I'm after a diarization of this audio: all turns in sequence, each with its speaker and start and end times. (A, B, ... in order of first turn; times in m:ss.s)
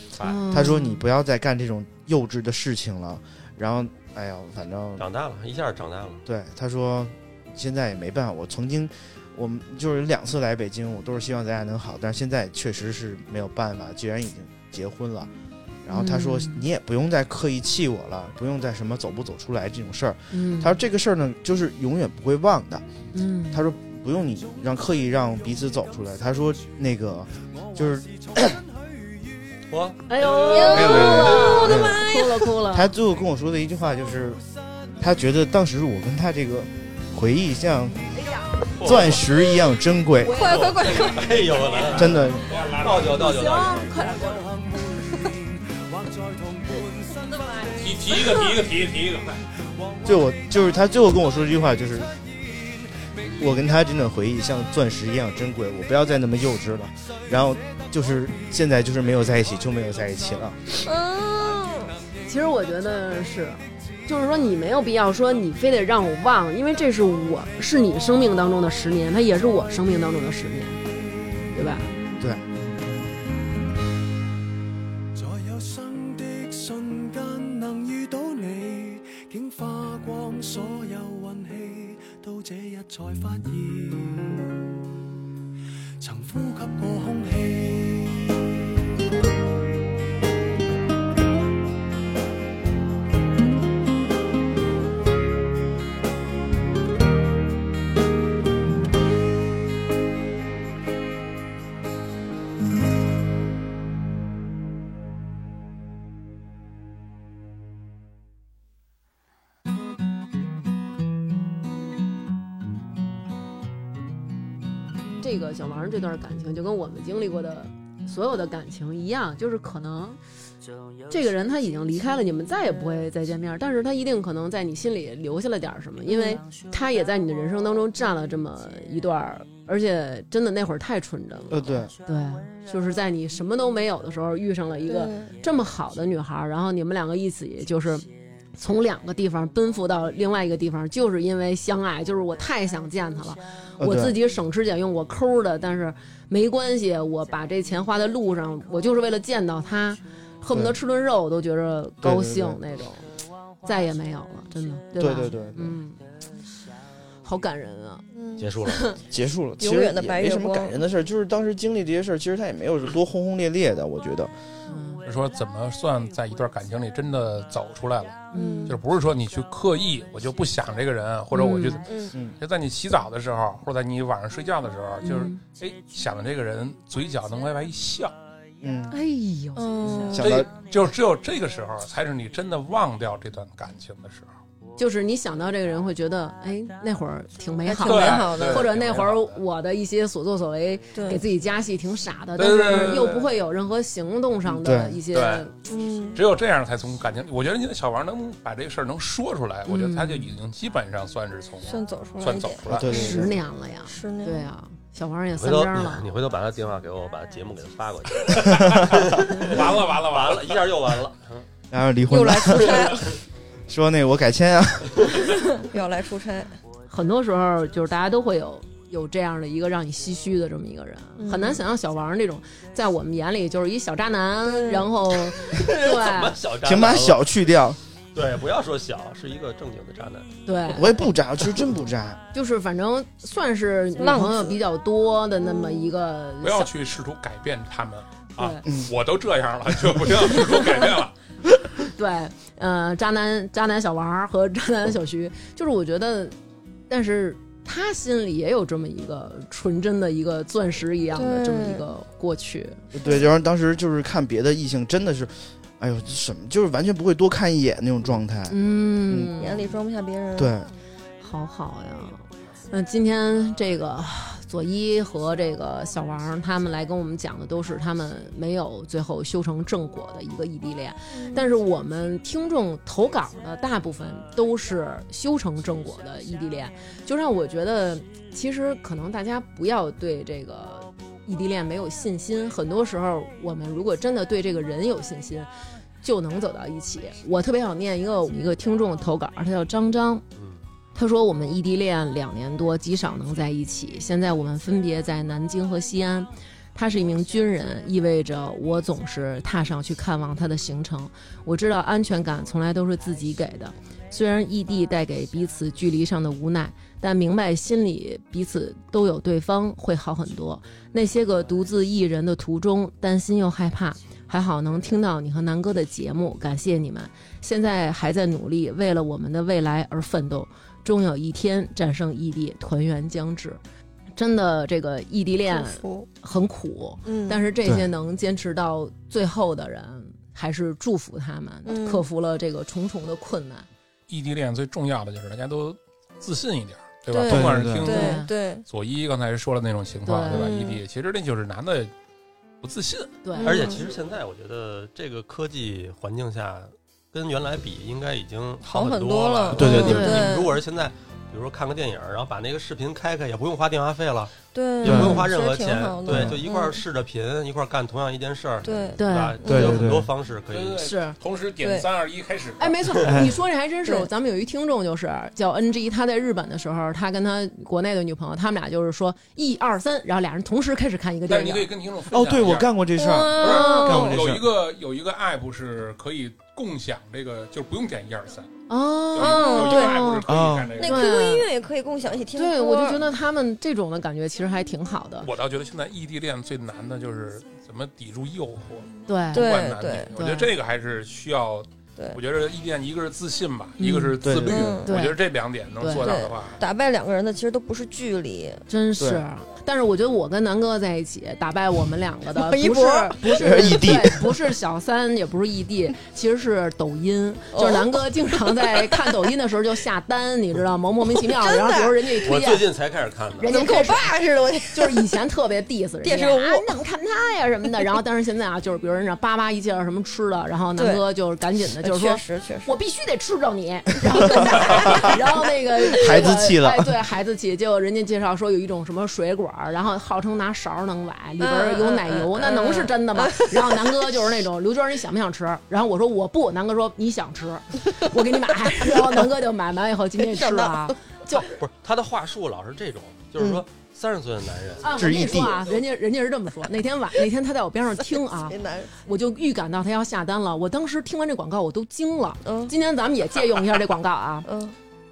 0:00.2-0:00.4 A
0:00.2-0:01.1 B
0:00.5-0:05.1 C
0:05.0-0:06.2 A
0:06.3-0:15.3 C
0:15.8-0:22.8 C
0:15.9-0:16.7 B
0:20.3-0:20.8 B
0:23.1-0:23.6 B
0:23.5-0:28.6 C
0:29.7-0:31.6 A
0:30.1-0:32.9 B
0:30.5-0:32.5 D
0:30.7-0:32.0 C
0:32.7-0:34.4 C
0:35.0-0:38.1 C
0:38.2-0:38.7 B
0:38.8-0:39.3 A
0:38.8-0:40.5 C
0:40.2-0:41.0 B
0:40.3-0:41.5 D
0:40.5-0:44.0 A
0:41.8-0:43.1 E
0:41.9-0:42.5 C
0:43.0-0:44.7 B
0:44.1-0:48.0 F
0:47.4-0:48.4 B
0:47.8-0:49.4 E
0:50.0-0:52.2 C
0:53.3-1:00.8 C
1:00.8-1:01.9 D
1:02.3-1:10.8 B
1:11.5-1:11.9 B
1:12.2-1:12.7 C
1:15.2-1:24.5 F
1:26.0-1:28.4 F
1:55.2-2:00.2 B
2:01.1-2:33.1 B
2:06.1-2:06.4 D
2:11.5-2:11.9 C
2:14.9-2:15.3 D
2:23.8-2:24.2 C
2:32.0-2:32.6 C
2:33.6-2:36.0 B
2:35.0-2:35.8 C
2:37.2-2:38.0 B
2:38.1-2:38.5 D
2:38.4-2:38.9 A
2:38.6-2:39.0 B
2:39.1-2:44.3 C
2:39.6-2:40.8 D
2:44.7-2:45.0 B
2:45.0-2:51.9 E
2:48.3-2:48.8 B
2:48.4-2:48.8 D
2:51.3-2:51.8 B
2:51.8-2:52.1 D
2:52.4-2:58.1 E
2:55.0-2:55.4 B
2:58.6-2:59.0 C
2:58.9-3:00.2 B
2:59.6-3:00.4 D
3:00.1-3:00.5 C
3:00.1-3:04.3 E
3:04.8-3:15.5 B
3:07.6-3:08.7 D
3:07.8-3:09.4 E
3:10.9-3:11.2 D
3:12.4-3:13.3 E
3:12.6-3:13.1 D
3:14.5-3:15.0 C
3:15.1-3:15.4 E
3:15.7-3:16.2 D
3:16.1-3:23.1 E
3:19.7-3:20.4 B
3:21.6-3:23.2 D
3:22.7-3:23.4 C
3:22.8-3:26.1 B
3:23.8-3:24.5 D
3:25.4-3:31.4 A
3:28.3-3:30.6 E
3:31.7-3:32.9 C
3:32.1-3:33.1 D
3:33.7-3:35.4 C
3:35.6-3:36.6 D
3:36.9-3:46.4 B
3:41.2-3:41.6 D
3:44.4-3:44.9 D
3:45.5-3:47.3 A
3:46.6-3:47.8 C
3:48.1-3:50.3 A
3:50.4-3:51.1 B
3:50.7-3:52.2 C
3:52.3-3:56.7 B
3:54.0-3:54.6 D
3:55.5-3:55.8 D
3:56.4-4:01.1 E
3:58.4-3:58.6 B
4:00.3-4:01.0 B
4:01.8-4:06.4 B
4:06.9-4:12.8 B
4:11.1-4:11.8 D
4:12.9-4:19.3 C
4:18.5-4:19.8 B
4:19.4-4:20.5 D
4:20.4-4:20.7 C
4:21.2-4:45.5 B
4:31.1-4:31.4 D
4:46.0-4:50.2 B
4:50.9-5:23.6 B
5:24.1-5:33.7 B
5:25.5-5:26.1 D
5:27.0-5:27.4 D
5:31.6-5:32.0 D
5:34.1-5:41.9 E
5:37.1-5:38.6 D
5:37.3-5:37.9 C
5:37.8-5:38.3 B
5:40.0-5:40.5 B
5:40.3-5:40.8 D
5:42.6-5:43.2 E
5:43.2-5:43.8 B
5:43.4-5:43.8 D
5:43.4-6:00.9 A
5:48.6-5:50.6 D
5:49.6-5:50.2 C
5:49.6-5:50.4 B
5:54.5-5:56.8 D
5:54.8-5:55.3 C
5:56.1-5:56.4 C
5:58.6-5:59.8 D
5:59.0-5:59.6 B
5:59.4-6:00.1 C
6:00.5-6:02.9 E
6:00.8-6:01.2 B
6:01.6-6:01.9 D
6:02.6-6:11.7 B
6:03.0-6:03.4 C
6:11.3-6:12.8 E
6:12.1-6:14.5 C
6:13.0-6:14.2 D
6:13.4-6:18.5 E
6:13.4-6:14.1 B
6:18.7-6:20.3 B
6:19.1-6:21.1 E
6:19.2-6:20.0 D
6:20.3-6:20.7 C
6:20.8-6:23.0 D
6:20.8-6:21.5 B
6:22.4-6:25.3 B
6:25.2-6:36.6 E
6:29.1-6:29.5 B
6:29.3-6:30.1 D
6:30.1-6:30.5 B
6:33.8-6:34.2 B
6:34.2-6:34.7 C
6:34.4-6:34.9 D
6:34.8-6:35.2 B
6:35.8-6:36.1 B
6:35.9-6:38.6 D
6:38.7-6:52.7 B
6:42.4-6:43.7 D
6:43.4-6:44.4 C
6:47.5-6:49.0 D
6:51.1-6:52.3 D
6:52.2-6:53.7 A
6:53.4-6:54.1 B
6:53.5-6:55.1 D
6:54.7-7:21.5 B
6:56.0-6:56.7 D
7:00.8-7:01.0 D
7:01.8-7:02.7 D
7:05.9-7:06.9 C
7:11.4-7:14.0 D
7:20.2-7:20.9 D
7:21.4-7:24.9 A
7:23.4-7:23.6 D
7:24.8-7:34.5 B
7:24.9-7:25.6 C
7:28.5-7:28.9 D
7:32.4-7:32.7 D
7:34.4-7:34.7 D